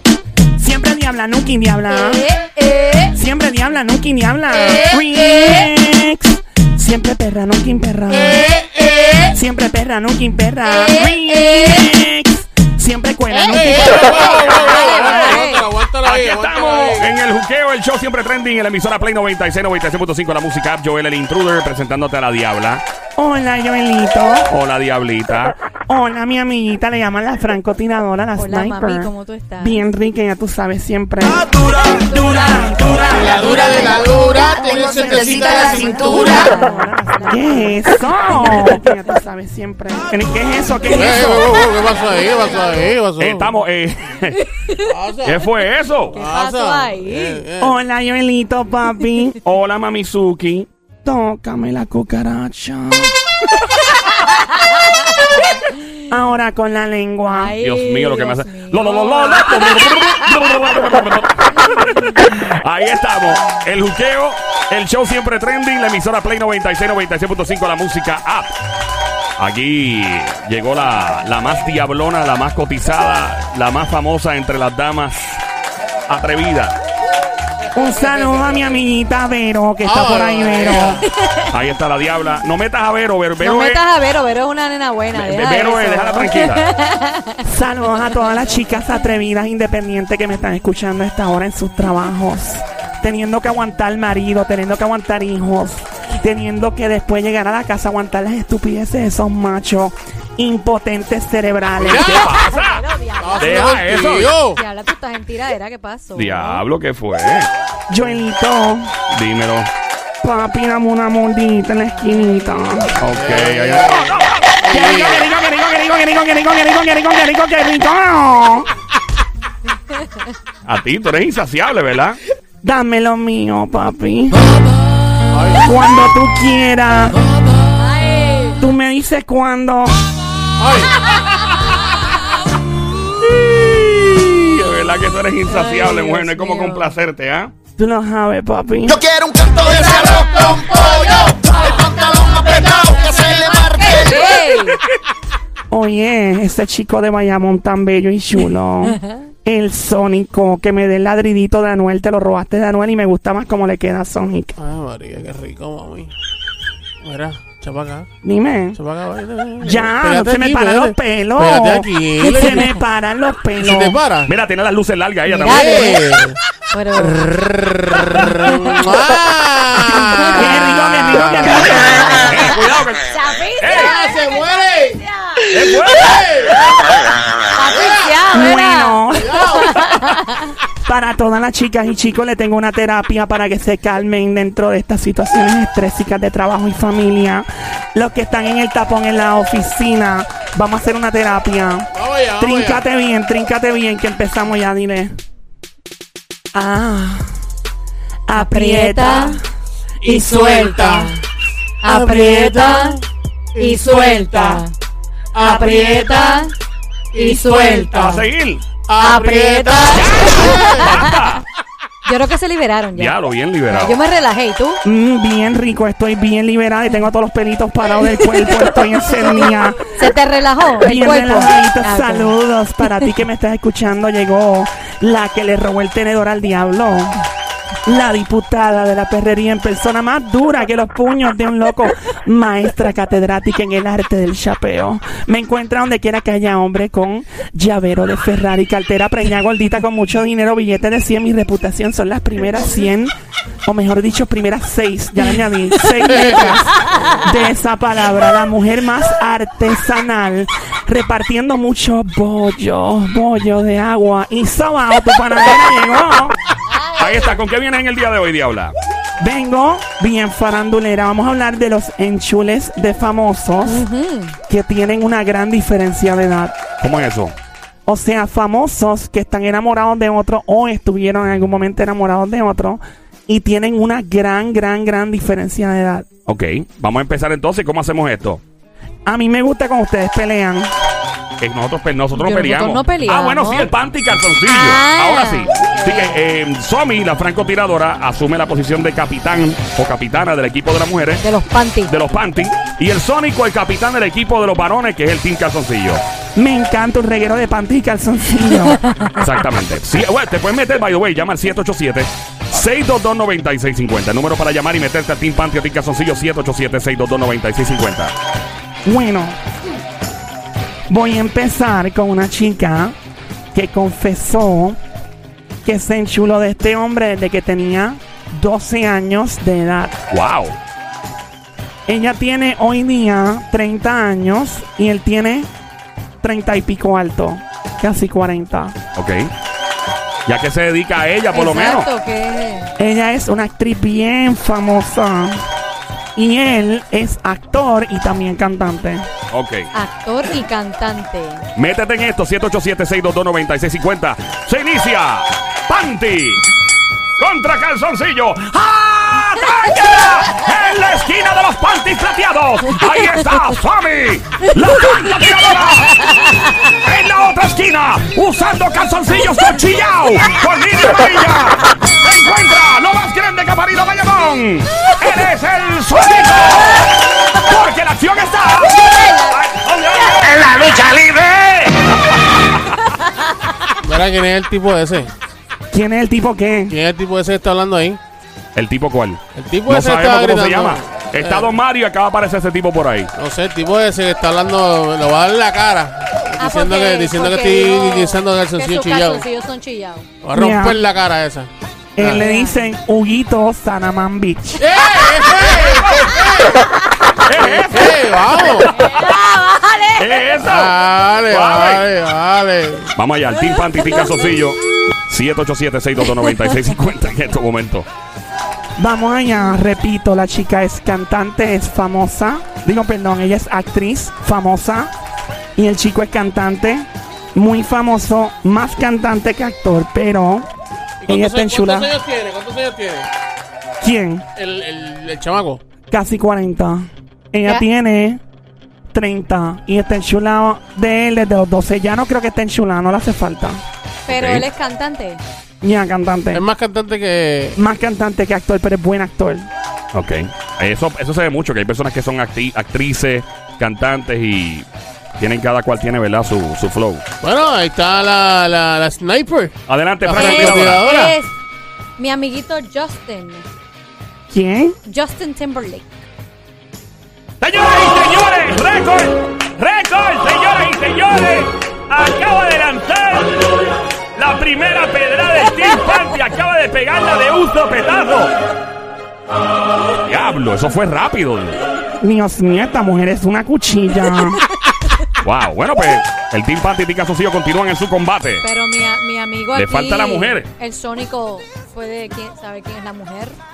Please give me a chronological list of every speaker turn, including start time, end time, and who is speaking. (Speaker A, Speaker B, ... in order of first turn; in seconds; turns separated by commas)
Speaker A: 0.6-2.2, Speaker B: 1.9-3.2, Speaker A: 3.1-8.5, Speaker C: 4.6-5.6, Speaker C: 8.1-9.4, Speaker A: 9.3-14.6, Speaker B: 10.7-11.8, Speaker C: 13.3-17.1, Speaker B: 14.1-15.7, Speaker D: 16.0-22.8, Speaker A: 23.2-24.5, Speaker D: 24.5-25.6, Speaker A: 25.9-31.5, Speaker B: 28.4-29.8, Speaker B: 31.9-37.8, Speaker A: 32.1-41.6, Speaker C: 33.1-36.5, Speaker B: 38.4-38.6, Speaker C: 40.9-43.6, Speaker D: 43.2-44.4, Speaker B: 44.3-44.9, Speaker C: 44.9-45.5, Speaker D: 45.2-46.2, Speaker B: 46.1-47.4, Speaker C: 46.1-47.8, Speaker A: 47.6-49.4, Speaker D: 49.4-50.7, Speaker A: 51.0-53.1, Speaker B: 54.2-56.0, Speaker A: 56.1-57.5, Speaker B: 57.3-60.3, Speaker D: 57.6-68.5, Speaker B: 61.7-62.0, Speaker D: 69.4-75.4, Speaker D: 76.1-76.8, Speaker A: 77.7-81.0, Speaker C: 79.8-81.1, Speaker B: 81.0-81.5, Speaker D: 81.5-83.8, Speaker B: 83.4-87.4, Speaker D: 85.1-86.7, Speaker A: 87.5-102.3, Speaker C: 101.8-102.3, Speaker B: 102.0-103.9, Speaker D: 102.1-102.8, Speaker C: 103.2-104.6, Speaker D: 103.4-104.3, Speaker B: 104.5-106.6, Speaker D: 106.2-107.5, Speaker A: 107.9-108.9, Speaker D: 109.1-109.7, Speaker A: 110.2-113.0, Speaker B: 111.9-112.9, Speaker D: 113.0-114.6, Speaker C: 113.0-115.3, Speaker A: 114.7-118.7, Speaker D: 120.7-122.2, Speaker A: 122.6-124.4, Speaker C: 125.3-125.8, Speaker A: 125.6-127.2, Speaker B: 127.8-128.6, Speaker A: 128.6-130.0, Speaker C: 130.6-131.0, Speaker D: 133.3-137.5, Speaker B: 135.5-136.9, Speaker A: 137.8-139.1, Speaker E: 139.0-140.4, Speaker C: 139.6-143.6, Speaker B: 140.4-141.8, Speaker B: 142.4-144.8, Speaker E: 142.7-143.9, Speaker A: 145.7-154.5, Speaker C: 154.6-156.1, Speaker C: 157.0-158.1, Speaker A: 158.2-158.8, Speaker C: 158.8-162.7, Speaker A: 159.6-164.0, Speaker B: 162.3-162.7, Speaker C: 163.6-164.3, Speaker D: 164.3-165.8, Speaker B: 165.3-166.0, Speaker C: 165.4-166.4, Speaker B: 166.7-167.3, Speaker C: 167.0-171.6, Speaker B: 168.4-168.8, Speaker A: 170.3-172.2, Speaker D: 170.9-174.0, Speaker B: 172.0-172.6, Speaker B: 173.1-175.5, Speaker C: 173.8-175.0, Speaker D: 175.5-176.2, Speaker C: 175.6-176.6, Speaker B: 177.5-180.6, Speaker A: 178.3-179.4, Speaker C: 179.1-179.9, Speaker A: 180.8-195.1, Speaker C: 191.9-192.8, Speaker A: 196.5-197.3, Speaker A: 198.3-199.4, Speaker B: 198.3-199.4, Speaker C: 200.0-201.2, Speaker B: 200.1-201.2, Speaker B: 201.8-203.0, Speaker C: 201.8-203.0, Speaker C: 203.6-204.6, Speaker B: 203.6-204.7, Speaker C: 205.3-206.5, Speaker B: 205.4-206.5, Speaker C: 207.1-208.2, Speaker B: 207.1-208.3, Speaker D: 208.1-208.7, Speaker C: 208.9-211.0, Speaker B: 209.0-211.2, Speaker D: 209.9-211.4, Speaker B: 212.1-213.2, Speaker D: 212.9-214.0, Speaker B: 213.7-214.8, Speaker A: 214.8-219.9, Speaker B: 218.2-218.6, Speaker B: 219.8-222.3, Speaker A: 220.8-227.2, Speaker A: 227.9-243.1, Speaker A: 243.7-256.3, Speaker C: 246.2-246.5, Speaker B: 256.7-257.4, Speaker D: 257.0-258.8, Speaker A: 259.2-263.9, Speaker B: 263.6-264.4, Speaker A: 264.5-266.6, Speaker D: 266.8-267.3, Speaker A: 267.9-276.1, Speaker D: 276.3-278.4, Speaker A: 279.1-280.7, Speaker D: 281.4-291.2, Speaker B: 282.1-283.7, Speaker B: 284.5-286.2, Speaker B: 291.2-291.9, Speaker D: 291.9-296.0, Speaker A: 296.4-298.8, Speaker D: 299.2-308.1, Speaker A: 308.9-309.4, Speaker A: 310.9-312.9, Speaker A: 313.5-314.8, Speaker A: 315.6-320.0, Speaker D: 320.1-320.6, Speaker A: 321.9-325.5, Speaker A: 326.2-328.8, Speaker D: 328.9-329.2, Speaker D: 330.3-331.9, Speaker B: 331.3-332.7, Speaker A: 332.8-335.4, Speaker A: 336.2-339.1, Speaker D: 339.3-339.7, Speaker B: 339.7-341.5, Speaker D: 341.6-346.4, Speaker D: 347.2-356.1, Speaker D: 356.7-372.8, Speaker B: 368.8-369.4, Speaker B: 372.9-373.4, Speaker C: 373.8-375.1, Speaker A: 375.7-376.7, Speaker C: 376.7-378.0, Speaker D: 378.6-383.1, Speaker C: 379.4-381.6, Speaker C: 383.2-389.2, Speaker B: 386.4-390.1, Speaker C: 390.2-392.2, Speaker A: 390.3-390.8, Speaker A: 392.0-394.6, Speaker B: 392.1-392.7, Speaker C: 394.6-396.6, Speaker B: 395.5-396.6, Speaker D: 397.2-398.0, Speaker C: 397.6-398.8, Speaker B: 398.7-400.2, Speaker D: 400.0-401.9, Speaker C: 400.4-402.9, Speaker D: 402.9-407.9, Speaker B: 403.4-404.1, Speaker A: 408.8-414.9, Speaker A: 415.6-420.5, Speaker C: 421.0-423.1, Speaker A: 421.1-421.9, Speaker A: 423.8-424.2, Speaker C: 424.4-425.6, Speaker A: 425.9-428.2, Speaker A: 428.9-433.6, Speaker B: 434.1-435.2, Speaker D: 434.1-434.4, Speaker A: 435.6-436.4, Speaker C: 436.3-437.6, Speaker A: 437.6-439.5, Speaker D: 439.9-444.7, Speaker D: 445.2-447.0, Speaker C: 447.2-451.1, Speaker D: 449.7-450.9, Speaker B: 450.1-451.3, Speaker B: 452.0-453.4, Speaker A: 454.3-454.8, Speaker B: 454.9-456.0, Speaker D: 457.4-463.6, Speaker D: 464.1-468.3, Speaker D: 470.1-471.6, Speaker A: 472.0-474.4, Speaker D: 475.2-478.4, Speaker B: 478.4-483.4, Speaker D: 479.5-480.5